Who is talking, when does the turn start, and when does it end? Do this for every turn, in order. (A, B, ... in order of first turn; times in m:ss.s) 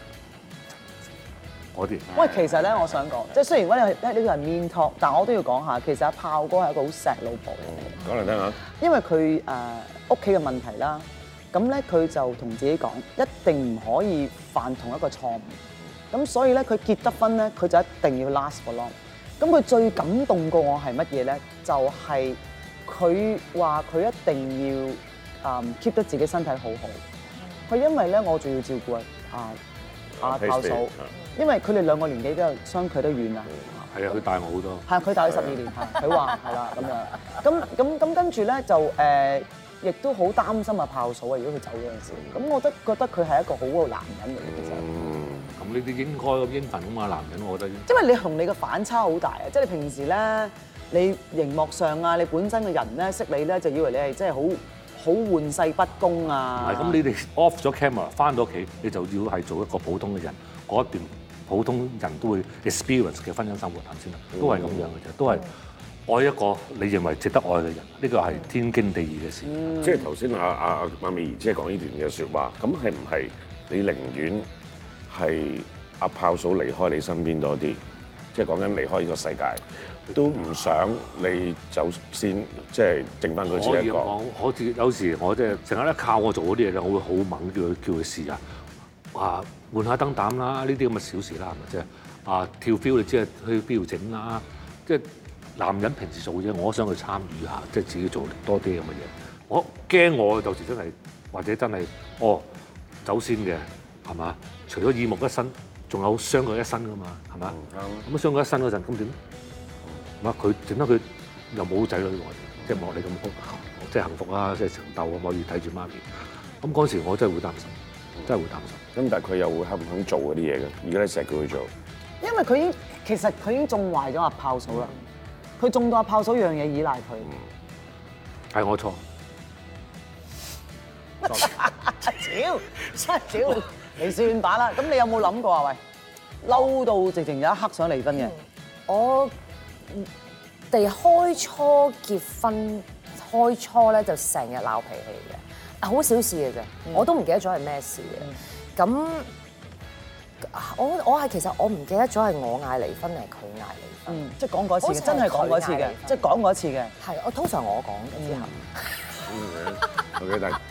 0:01.7-0:02.1 A
0:02.1-0:02.5 B
0:02.1-0:08.1 C
0:07.7-0:08.6 B
0:08.6-0:15.6 C
0:16.1-0:27.0 C
0:27.7-0:29.6 C
0:30.2-0:31.1 B
0:30.2-0:33.8 C
0:33.9-0:34.9 A
0:34.9-0:45.0 C
0:44.6-0:45.5 B
0:45.6-0:47.9 A
0:47.9-0:57.0 C
0:56.6-1:05.5 A
1:04.3-1:04.9 B
1:06.1-1:09.8 A
1:09.5-1:10.0 C
1:09.8-1:14.5 B
1:15.1-1:17.8 B
1:18.3-1:24.1 B
1:23.5-1:28.4 A
1:29.1-1:42.5 A
1:43.0-1:49.2 A
1:47.5-1:48.0 B
1:50.2-1:56.0 A
1:56.6-1:58.8 A
1:58.9-2:01.7 B
2:02.2-2:04.9 C
2:05.6-2:07.3 C
2:08.5-2:09.0 A
2:11.2-2:15.8 C
2:16.4-2:18.3 C
2:18.9-2:19.3 D
2:20.7-2:29.3 D
2:30.4-2:34.2 D
2:34.1-2:36.9 C
2:34.8-2:36.2 D
2:37.0-2:39.3 D
2:38.2-2:38.5 C
2:39.2-2:40.6 B